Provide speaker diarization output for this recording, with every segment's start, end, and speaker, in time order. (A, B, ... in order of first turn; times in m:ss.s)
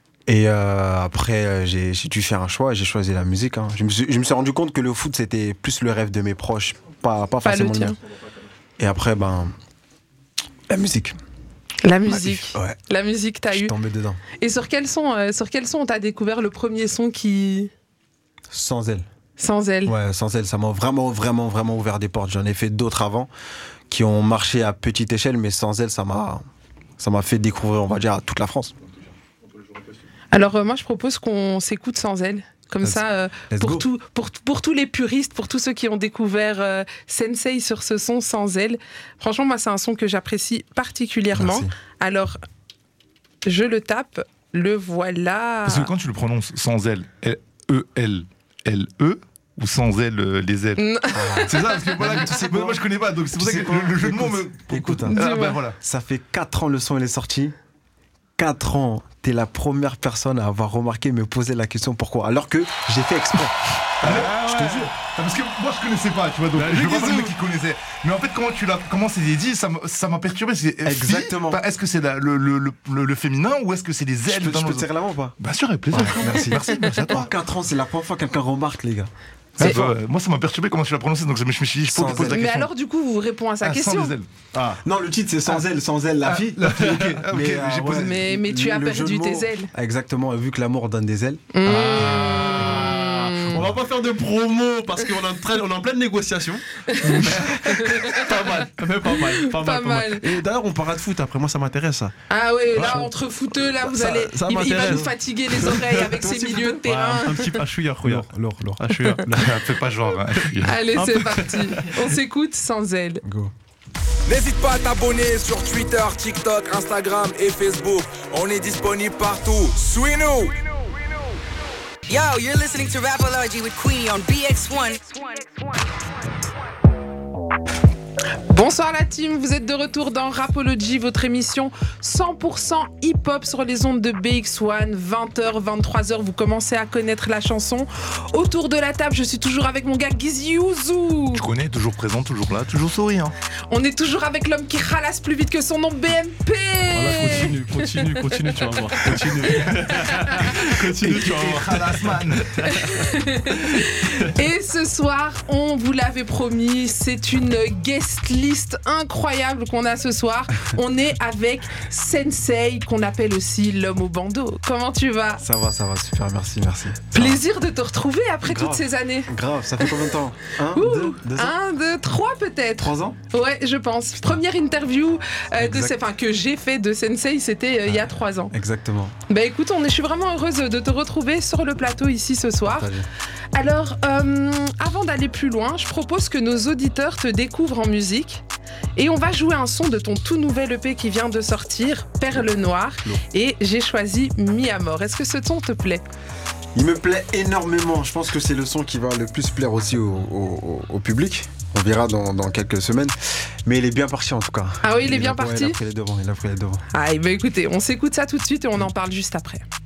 0:00.3-0:08.0 A
0:07.4-0:08.0 B
0:08.8-0:09.5 A
0:10.7-0:11.1 A
0:11.8-0:13.7 B
0:12.1-0:12.8 A
0:13.5-0:14.2 A
0:14.4-0:17.7 B
0:18.5-0:19.0 A
0:19.4-0:19.9 B
0:19.8-0:23.3 A
0:23.9-0:26.4 A
0:27.0-0:28.7 A
0:30.3-0:42.4 B
0:32.8-0:33.8 A
0:41.3-0:41.7 A
0:43.4-0:45.9 B
0:45.6-0:50.9 C
0:50.8-0:52.2 B
0:51.1-0:51.5 A
0:51.4-0:55.7 C
0:52.1-0:52.8 A
0:53.3-0:57.5 A
0:55.1-0:55.6 B
0:58.4-1:04.8 A
1:04.0-1:14.8 C
1:04.2-1:04.8 D
1:06.5-1:07.3 D
1:10.8-1:11.6 A
1:14.2-1:15.4 A
1:15.4-1:17.3 C
1:15.9-1:19.9 A
1:19.6-1:22.7 C
1:21.9-1:22.4 A
1:22.1-1:24.2 B
1:23.6-1:24.3 C
1:24.5-1:24.8 D
1:24.8-1:33.2 A
1:26.3-1:28.1 C
1:26.8-1:27.2 D
1:27.9-1:29.7 B
1:31.5-1:33.7 B
1:33.5-1:42.1 D
1:36.9-1:38.3 B
1:39.1-1:40.3 B
1:42.3-1:47.6 B
1:42.8-1:43.0 D
1:43.7-1:49.5 D
1:46.1-1:46.8 A
1:48.0-1:49.4 A
1:49.3-1:51.1 C
1:50.3-1:52.1 D
1:50.6-1:53.2 B
1:53.2-1:53.5 A
1:54.3-2:00.4 E
1:54.3-1:55.8 F
1:56.3-1:56.8 F
1:59.8-2:00.5 F
2:02.1-2:05.6 F
2:08.5-2:21.4 B
2:21.3-2:23.3 C
2:23.7-2:27.9 B
2:26.9-2:33.0 D
2:30.0-2:30.5 B
2:30.4-2:32.4 C
2:32.6-2:45.4 B
2:45.4-2:47.4 A
2:47.1-2:50.0 B
2:48.4-2:51.5 A
2:50.7-2:58.5 B
2:52.8-2:53.2 A
2:55.6-2:56.0 A
2:57.9-2:59.1 A
2:59.3-3:02.9 B
3:02.6-3:03.1 A
3:03.5-3:08.4 B
3:09.0-3:16.0 B
3:16.7-3:26.8 A
3:24.8-3:25.8 B
3:26.9-3:29.6 B